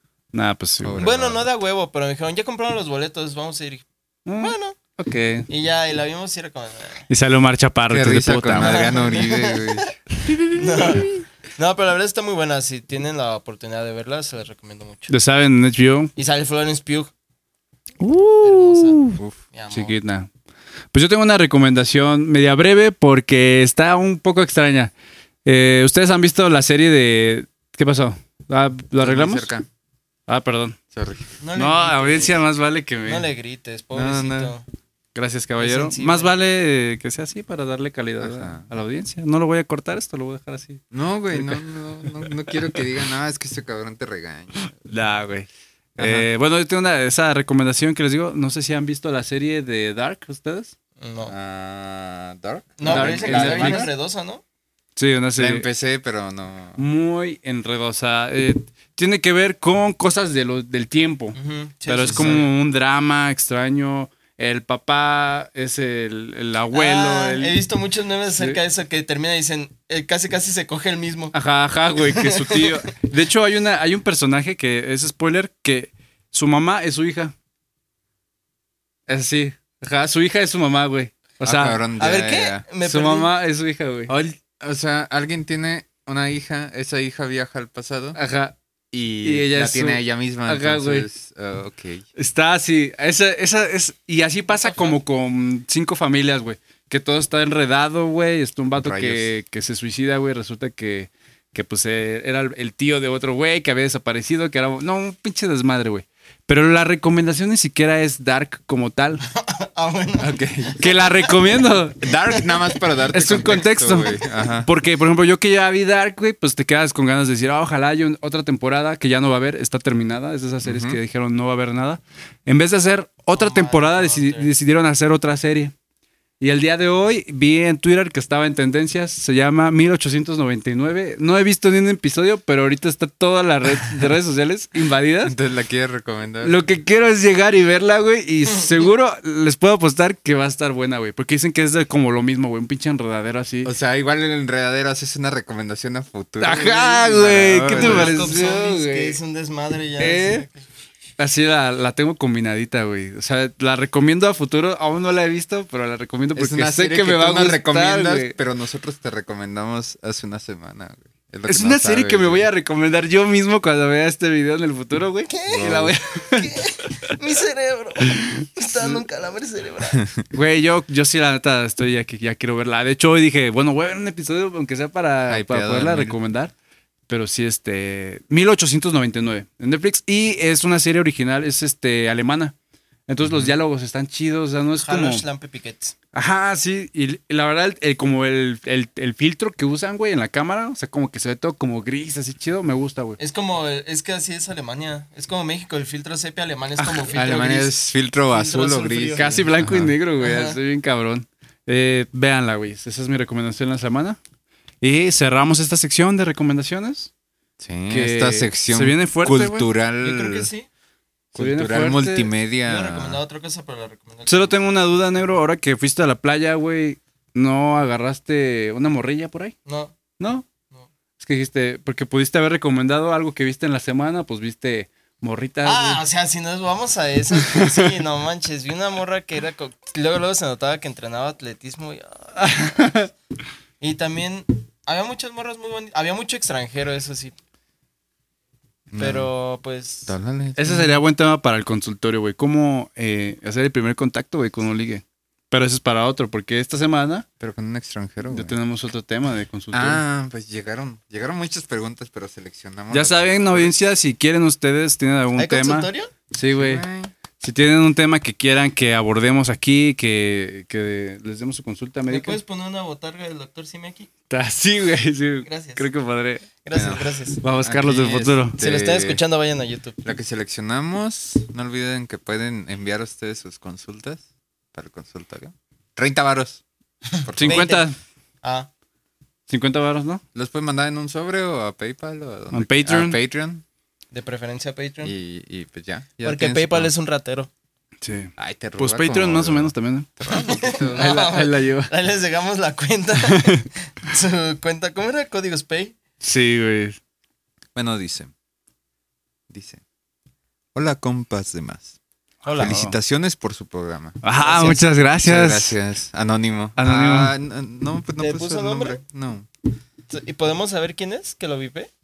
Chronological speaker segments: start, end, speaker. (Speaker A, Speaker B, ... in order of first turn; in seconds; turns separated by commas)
Speaker A: 0.3-1.0, Speaker B: 0.8-1.5, Speaker C: 1.0-3.9, Speaker A: 4.3-5.5, Speaker C: 4.4-4.8, Speaker C: 5.5-7.1, Speaker A: 7.1-8.9, Speaker B: 7.9-10.0, Speaker C: 8.6-9.9, Speaker A: 10.2-11.2, Speaker C: 10.5-15.1, Speaker A: 15.1-16.1, Speaker C: 16.2-17.1, Speaker A: 18.0-19.2, Speaker C: 18.4-20.0, Speaker A: 19.7-20.3, Speaker A: 20.9-24.9, Speaker A: 25.4-29.5, Speaker B: 29.0-29.7, Speaker A: 30.3-30.8, Speaker B: 30.9-31.3, Speaker C: 31.4-32.4, Speaker A: 31.6-33.2, Speaker C: 33.0-34.6, Speaker B: 33.9-34.5, Speaker A: 35.1-42.5, Speaker C: 35.6-36.3, Speaker B: 38.2-38.7, Speaker B: 40.9-44.8, Speaker A: 44.8-50.8, Speaker B: 46.0-46.3, Speaker C: 51.0-51.3, Speaker B: 51.2-53.9, Speaker C: 52.8-54.4, Speaker A: 52.9-53.9, Speaker A: 55.0-55.7, Speaker B: 55.4-56.8, Speaker A: 56.8-67.6, Speaker C: 61.4-62.5, Speaker B: 62.0-62.4, Speaker C: 66.7-71.3, Speaker A: 71.3-77.3, Speaker C: 72.0-72.8, Speaker A: 79.1-81.8, Speaker B: 81.4-82.7, Speaker C: 82.0-83.3, Speaker A: 82.8-84.4, Speaker B: 84.1-88.2, Speaker A: 88.2-88.6, Speaker B: 88.9-92.0, Speaker A: 89.2-91.1, Speaker A: 92.2-109.2, Speaker C: 94.6-95.0, Speaker B: 98.8-99.3, Speaker C: 109.3-111.5, Speaker B: 110.2-110.8, Speaker A: 110.8-112.0, Speaker B: 112.0-114.7, Speaker C: 112.3-112.8, Speaker A: 113.1-125.7, Speaker B: 120.6-121.0, Speaker C: 123.3-124.5, Speaker A: 126.4-135.3, Speaker B: 135.2-136.6, Speaker A: 136.4-143.7, Speaker B: 143.6-148.3, Speaker A: 146.4-149.2, Speaker C: 147.6-150.7, Speaker A: 150.0-150.5, Speaker A: 151.2-158.4, Speaker B: 156.4-162.5, Speaker A: 161.5-167.1, Speaker C: 165.3-170.0, Speaker B: 165.5-165.9, Speaker A: 170.3-176.5, Speaker B: 175.3-176.2, Speaker A: 177.1-182.6, Speaker A: 183.1-185.2, Speaker B: 183.2-183.5, Speaker C: 184.8-185.9, Speaker A: 186.1-193.2, Speaker C: 193.2-199.5, Speaker A: 196.8-197.1, Speaker B: 197.1-199.9, Speaker A: 199.2-204.2, Speaker C: 200.2-200.6, Speaker A: 204.8-207.1, Speaker B: 207.6-210.5, Speaker A: 207.9-209.7, Speaker C: 210.0-210.7, Speaker B: 211.3-213.2, Speaker A: 211.3-212.3, Speaker C: 212.7-214.6, Speaker A: 214.3-219.6, Speaker C: 219.7-220.0, Speaker A: 220.2-220.4, Speaker A: 221.2-226.0, Speaker C: 225.6-233.0, Speaker A: 232.4-233.1, Speaker C: 233.8-237.3, Speaker B: 238.9-239.3, Speaker C: 239.0-240.2, Speaker B: 240.1-240.9, Speaker A: 240.6-247.3, Speaker B: 247.4-248.6, Speaker A: 248.3-250.0, Speaker B: 249.7-253.7, Speaker A: 252.9-256.9, Speaker C: 255.4-256.1, Speaker B: 256.5-257.1, Speaker A: 257.4-262.4, Speaker C: 262.1-264.1, Speaker A: 264.3-266.5, Speaker C: 265.4-265.9, Speaker C: 266.6-267.4, Speaker B: 266.7-269.2, Speaker A: 267.4-268.6, Speaker C: 268.6-270.0, Speaker B: 270.0-276.6, Speaker B: 277.2-277.7, Speaker A: 277.4-278.0, Speaker C: 277.4-277.9, Speaker C: 278.4-278.7, Speaker A: 279.5-280.2, Speaker B: 280.4-283.6, Speaker A: 282.5-283.2, Speaker C: 284.1-285.1, Speaker B: 285.0-286.9, Speaker C: 286.2-287.5, Speaker A: 288.0-290.1, Speaker B: 288.4-291.0, Speaker C: 290.3-295.9, Speaker A: 290.9-291.9, Speaker A: 293.3-293.6, Speaker A: 296.2-297.0, Speaker B: 297.8-298.3, Speaker B: 299.5-299.8, Speaker B: 300.8-301.9, Speaker C: 302.4-302.8, Speaker A: 302.5-302.9, Speaker B: 302.6-304.2, Speaker A: 304.2-305.8, Speaker C: 304.4-304.8, Speaker B: 305.2-309.5, Speaker A: 306.8-307.3, Speaker C: 308.2-309.0, Speaker C: 310.1-311.9